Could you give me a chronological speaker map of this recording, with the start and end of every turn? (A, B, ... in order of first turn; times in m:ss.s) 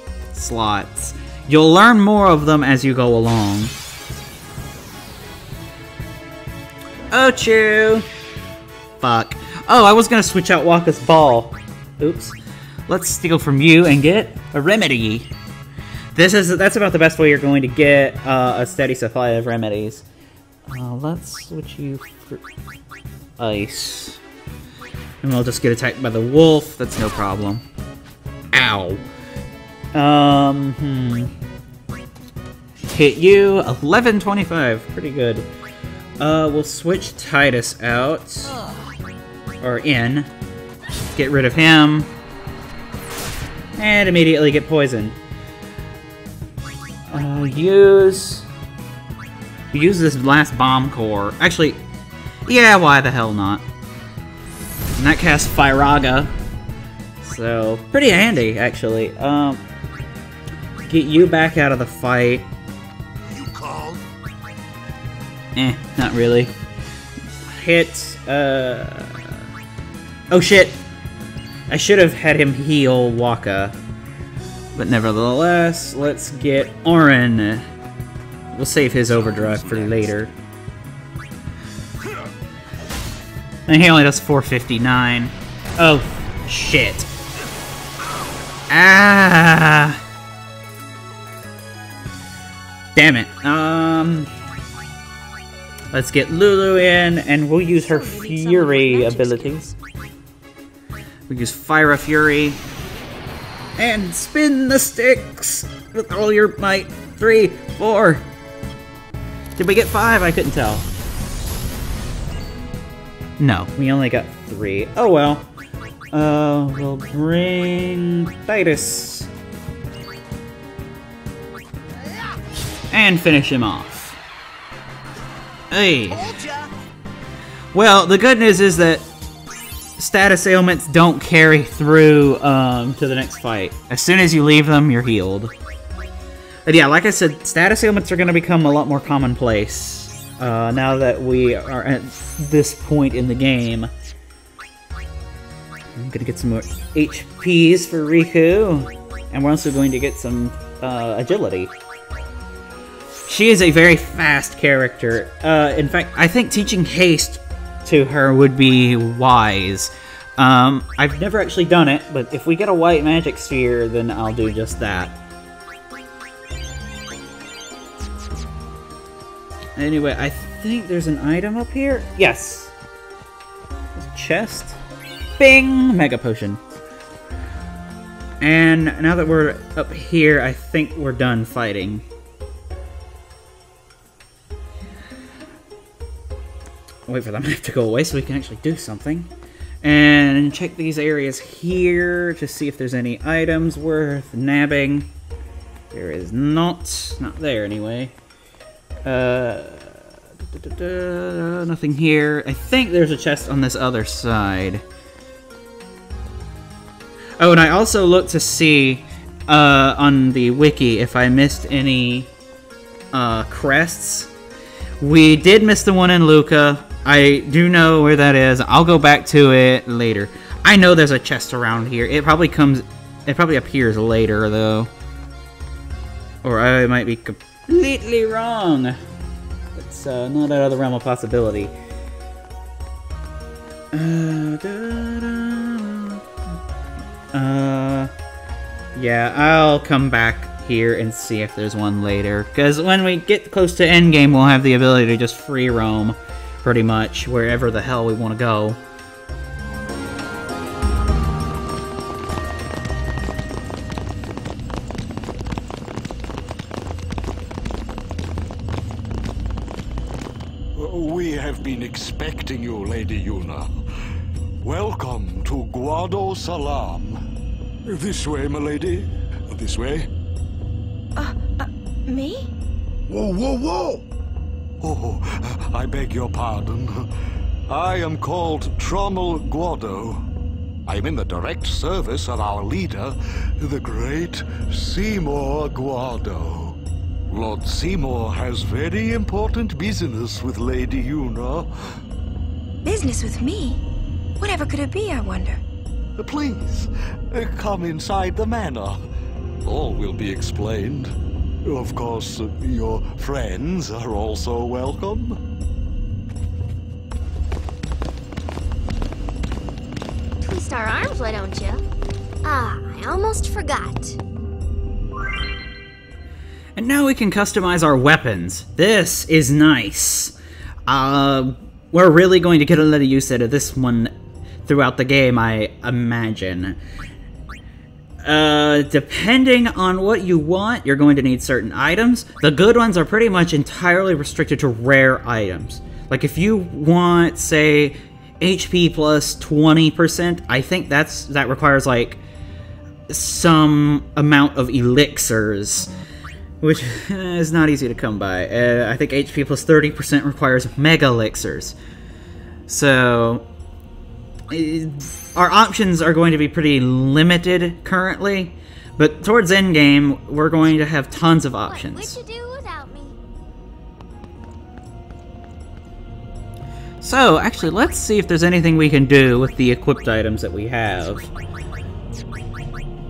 0:00.3-0:03.7 A
0:07.1-0:08.1 A
0:09.0-0:12.4 A
0:12.9-0:15.3 A
0:16.2-0:20.0 A
0:20.7-0:22.4 A
0:23.4-0:24.2 A
0:25.2-0:27.6 A
0:28.5-0:29.0 A
0:29.9-0:31.3 A
0:32.9-0:35.5 A
0:36.2-0:38.6 A
0:39.6-0:40.3 A
0:41.1-0:42.1 A
0:43.8-0:45.2 A
0:47.1-0:48.5 A
0:49.7-0:51.8 A
0:52.5-0:53.6 A
0:55.0-0:56.3 A
0:57.2-0:59.6 A
1:00.9-1:02.5 A
1:03.4-1:04.0 B
1:05.6-1:06.5 A
1:07.5-1:09.4 A
1:10.3-1:10.8 A
1:11.7-1:13.8 A
1:14.8-1:17.6 A
1:18.5-1:20.3 A
1:23.7-1:27.1 A
1:28.7-1:30.0 A
1:33.0-1:34.3 A
1:35.9-1:39.7 A
1:37.9-1:39.6 C
1:38.0-1:39.5 D
1:41.3-1:42.6 A
1:43.8-1:48.2 A
1:49.6-1:50.9 A
1:53.4-1:55.5 A
1:56.1-1:59.3 A
2:02.9-2:04.2 A
2:05.7-2:06.4 A
2:07.7-2:09.1 A
2:10.0-2:15.5 A
2:16.7-2:23.9 A
2:26.0-2:31.7 A
2:33.3-2:45.2 A
2:49.8-2:52.7 A
2:54.0-2:54.8 A
2:55.4-2:56.6 A
2:58.4-3:02.0 A
3:07.1-3:09.3 A
3:09.8-3:15.1 A
3:15.9-3:18.1 A
3:19.0-3:24.8 A
3:27.4-3:32.3 A
3:33.1-3:34.3 A
3:35.0-3:44.9 A
3:46.4-3:49.0 A
3:49.8-3:51.7 A
3:53.9-3:56.2 A
3:57.3-3:58.1 A
3:59.0-4:08.8 A
4:20.8-4:23.7 B
4:24.6-4:27.2 B
4:27.9-4:30.1 B
4:31.2-4:32.5 C
4:33.1-4:34.0 B
4:34.8-4:37.1 B
4:37.7-4:40.2 B
4:40.9-4:46.8 B
4:47.3-4:51.7 B
4:52.8-4:53.8 C
4:54.4-4:55.6 C
4:56.2-4:59.0 B
4:59.6-5:01.1 B
5:01.7-5:05.4 B
5:10.4-5:11.8 D
5:12.4-5:14.2 D
5:16.8-5:20.4 A
5:20.9-5:24.1 A
5:24.7-5:26.8 A
5:28.2-5:42.2 A
5:43.1-5:45.9 A
5:46.6-5:51.8 A
5:52.7-5:53.5 A
5:54.5-6:02.2 A
6:01.7-6:03.2 D
6:07.0-6:11.3 A